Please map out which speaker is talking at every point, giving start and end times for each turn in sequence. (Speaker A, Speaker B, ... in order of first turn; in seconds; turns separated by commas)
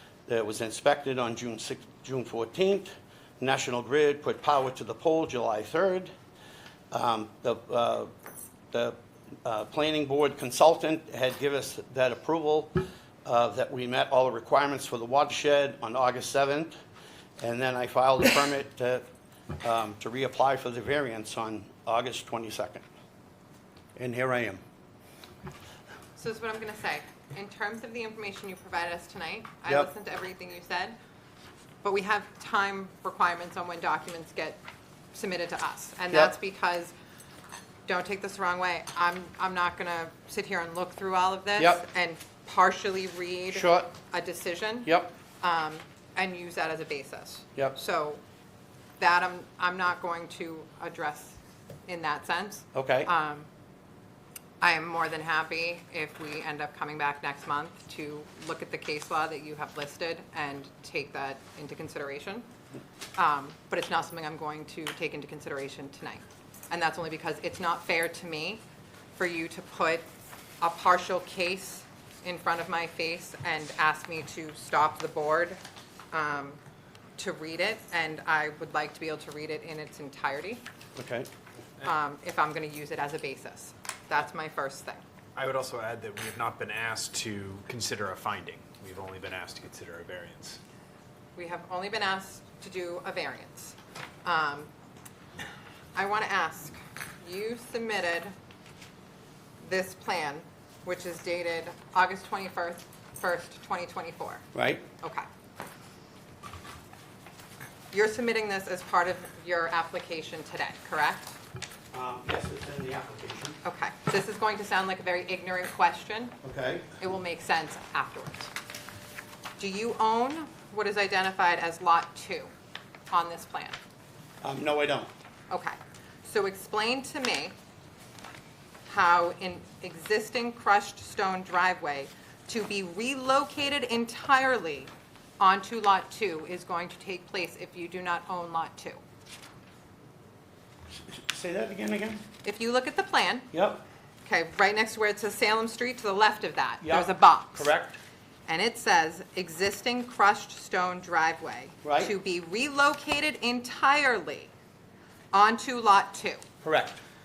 Speaker A: 0.3-6.1, Speaker A: 6.9-8.1, Speaker A: 8.7-16.8, Speaker A: 17.4-19.0, Speaker A: 19.6-22.8, Speaker A: 23.9-24.6, Speaker B: 26.2-31.0, Speaker B: 31.8-34.6, Speaker B: 35.1-36.9, Speaker B: 37.9-48.2, Speaker A: 41.6-41.8, Speaker A: 43.5-43.9, Speaker A: 44.8-45.1, Speaker B: 49.0-53.5, Speaker A: 52.7-53.1, Speaker B: 54.6-62.5, Speaker B: 63.2-68.6, Speaker B: 69.2-70.1, Speaker B: 70.6-75.6, Speaker B: 76.1-76.6, Speaker B: 77.2-80.6, Speaker A: 80.9-81.3, Speaker B: 81.8-85.0, Speaker C: 85.3-90.6, Speaker B: 91.3-94.7, Speaker B: 95.9-98.3, Speaker B: 99.6-104.5, Speaker A: 104.5-104.8, Speaker B: 105.0-105.3, Speaker B: 107.9-111.4, Speaker A: 111.9-113.5, Speaker B: 113.6-116.4, Speaker A: 116.4-116.9, Speaker B: 117.0-118.5, Speaker B: 119.6-122.5, Speaker B: 123.1-123.8, Speaker A: 124.4-125.1, Speaker B: 125.5-127.5, Speaker B: 128.9-139.0, Speaker A: 140.9-142.2, Speaker B: 142.4-143.5, Speaker A: 143.5-143.8, Speaker B: 144.2-147.7, Speaker A: 146.8-148.0, Speaker B: 148.5-154.5, Speaker A: 151.8-152.1, Speaker B: 155.3-156.4, Speaker A: 156.6-157.0